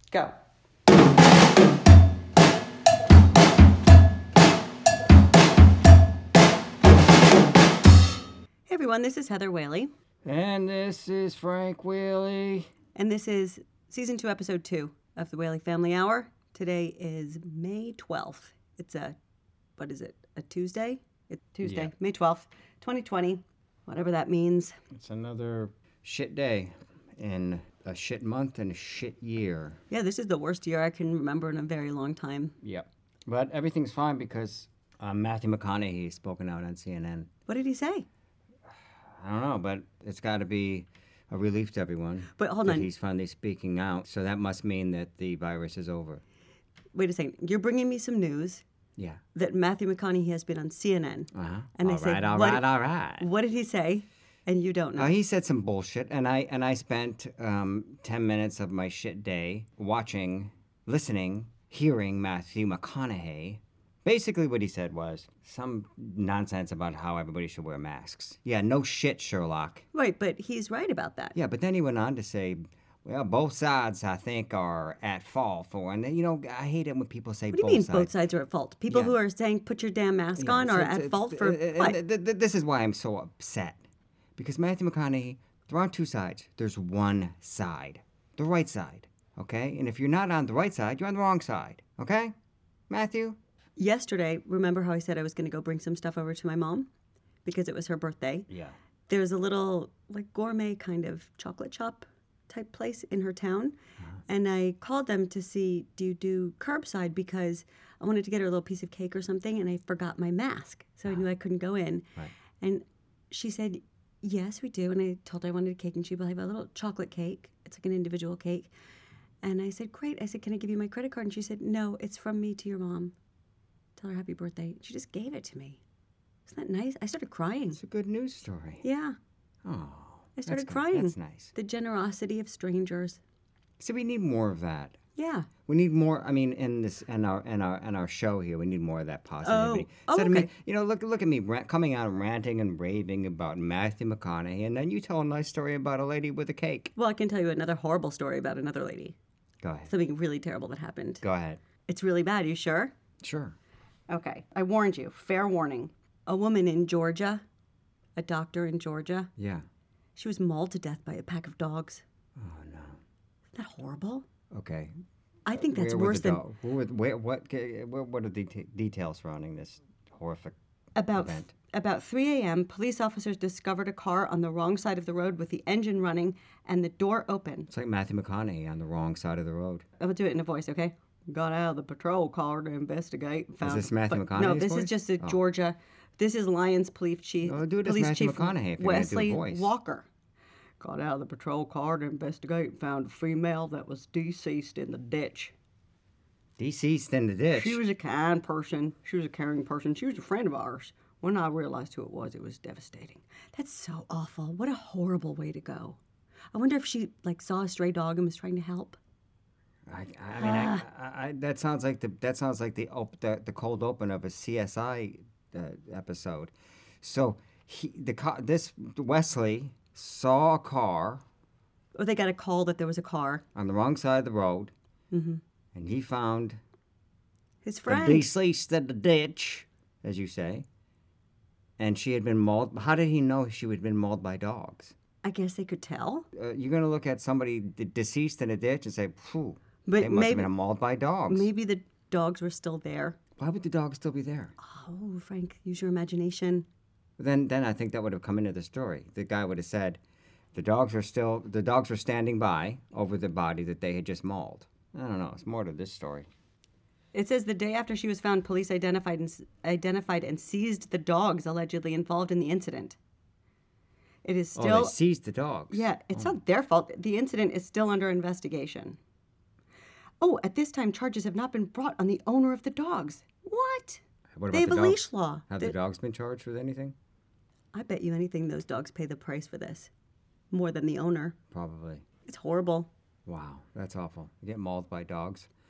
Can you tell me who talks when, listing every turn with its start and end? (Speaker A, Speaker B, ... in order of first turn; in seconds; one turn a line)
Speaker A: 8.7-9.9
Speaker B: 10.2-12.7
Speaker A: 12.9-19.2
Speaker A: 19.8-24.8
Speaker B: 21.6-21.9
Speaker B: 24.9-29.8
Speaker A: 29.9-32.5
Speaker B: 32.6-37.3
Speaker A: 37.5-38.0
Speaker B: 39.1-46.2
Speaker A: 42.4-42.9
Speaker A: 46.9-48.6
Speaker A: 49.4-52.7
Speaker B: 51.3-53.3
Speaker A: 53.2-55.1
Speaker B: 55.0-69.8
Speaker A: 69.9-71.3
Speaker B: 71.3-78.1
Speaker A: 77.5-82.0
Speaker B: 78.9-79.2
Speaker B: 80.4-83.8
Speaker B: 84.4-92.3
Speaker B: 92.9-93.4
Speaker A: 93.8-96.9
Speaker A: 97.5-98.5
Speaker B: 98.5-98.8
Speaker A: 99.1-103.8
Speaker A: 104.3-112.1
Speaker A: 112.6-118.7
Speaker A: 119.4-123.1
Speaker A: 124.0-125.8
Speaker A: 126.5-127.8
Speaker B: 127.7-128.8
Speaker A: 128.8-129.2
Speaker B: 129.7-131.5
Speaker A: 130.4-133.2
Speaker B: 133.8-135.0
Speaker A: 135.2-135.5
Speaker B: 135.7-146.9
Speaker A: 139.4-140.5
Speaker A: 147.0-149.2
Speaker B: 149.6-149.9
Speaker A: 149.9-151.2
Speaker B: 151.2-151.6
Speaker A: 151.8-152.9
Speaker B: 153.2-153.6
Speaker A: 154.1-157.4
Speaker A: 158.2-159.3
Speaker B: 159.4-159.7
Speaker A: 160.2-162.0
Speaker B: 162.4-163.0
Speaker A: 163.6-164.3
Speaker B: 164.5-164.9
Speaker A: 165.5-166.4
Speaker B: 165.5-170.6
Speaker A: 171.0-177.7
Speaker B: 171.1-171.5
Speaker B: 177.7-179.8
Speaker A: 180.0-190.1
Speaker B: 183.6-185.4
Speaker B: 187.4-189.7
Speaker A: 190.8-195.5
Speaker B: 196.6-197.8
Speaker A: 197.5-206.0
Speaker A: 206.5-209.0
Speaker B: 209.9-221.2
Speaker A: 210.4-210.8
Speaker A: 221.9-223.4
Speaker B: 223.6-224.7
Speaker A: 225.1-225.4
Speaker B: 225.8-226.6
Speaker A: 227.7-228.3
Speaker B: 227.9-230.7
Speaker B: 231.8-234.9
Speaker A: 235.2-236.3
Speaker B: 236.3-241.5
Speaker A: 239.8-240.5
Speaker A: 241.3-243.2
Speaker B: 243.4-244.6
Speaker A: 244.6-246.7
Speaker B: 247.2-250.0
Speaker B: 250.5-256.3
Speaker A: 257.1-263.0
Speaker A: 264.2-264.9
Speaker B: 264.6-266.4
Speaker A: 265.7-269.0
Speaker A: 270.2-275.7
Speaker B: 274.4-276.9
Speaker A: 277.7-279.9
Speaker A: 280.5-281.4
Speaker B: 281.5-282.1
Speaker A: 282.2-282.9
Speaker B: 283.3-285.5